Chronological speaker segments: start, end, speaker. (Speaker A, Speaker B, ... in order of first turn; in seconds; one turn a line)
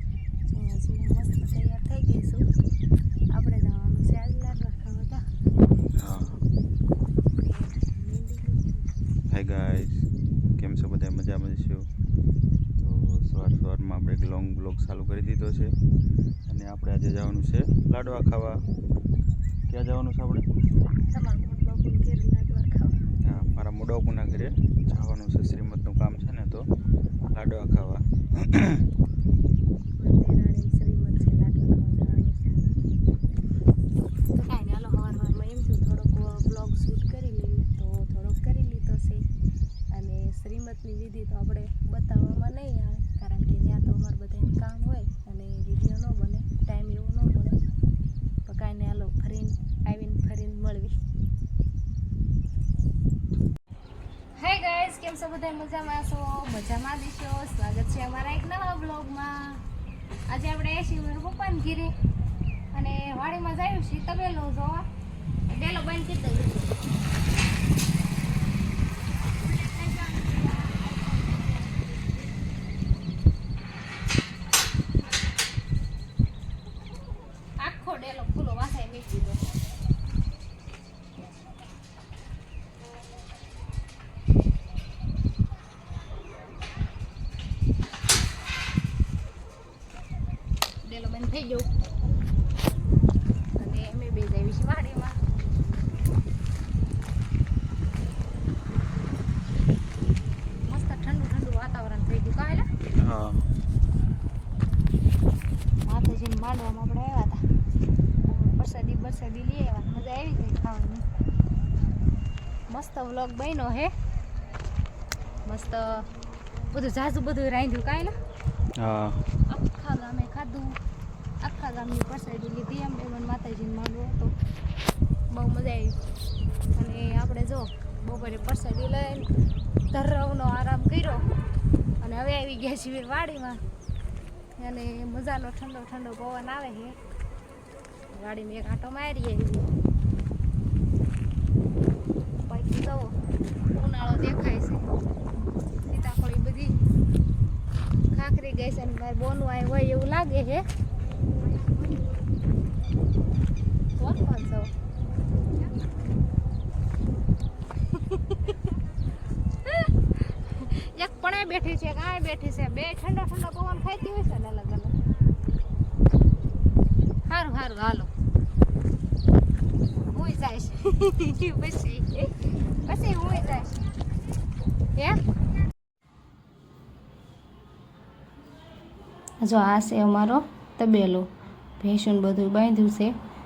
Speaker A: 0.5-2.4
Speaker A: 3.3-5.2
Speaker B: 6.0-6.4
Speaker A: 7.5-9.0
Speaker B: 9.3-11.8
Speaker B: 12.8-15.7
Speaker B: 16.5-18.6
Speaker B: 19.7-20.4
Speaker A: 21.1-22.9
Speaker B: 23.2-26.6
Speaker B: 27.3-28.8
Speaker A: 30.0-32.7
Speaker A: 34.3-39.3
Speaker A: 39.9-47.6
Speaker A: 48.5-50.9
Speaker A: 54.4-59.6
Speaker A: 60.3-61.9
Speaker A: 62.7-64.8
Speaker A: 65.5-66.7
Speaker A: 69.6-70.6
Speaker A: 77.6-79.4
Speaker A: 90.8-91.7
Speaker A: 93.6-95.2
Speaker A: 100.7-102.7
Speaker B: 103.0-103.4
Speaker A: 105.8-107.4
Speaker A: 108.2-111.0
Speaker A: 112.7-113.9
Speaker A: 115.4-116.0
Speaker A: 116.7-118.1
Speaker B: 118.8-119.2
Speaker A: 119.5-120.8
Speaker A: 121.4-124.3
Speaker A: 125.3-126.0
Speaker A: 126.7-129.3
Speaker A: 129.9-131.2
Speaker A: 132.0-133.6
Speaker A: 134.6-136.9
Speaker A: 138.1-139.7
Speaker A: 142.4-143.1
Speaker A: 143.7-144.9
Speaker A: 145.8-146.8
Speaker A: 148.1-150.6
Speaker A: 154.0-154.7
Speaker A: 158.1-158.5
Speaker A: 160.4-164.9
Speaker A: 167.3-168.1
Speaker A: 170.1-173.8
Speaker A: 179.4-181.3
Speaker A: 181.8-183.1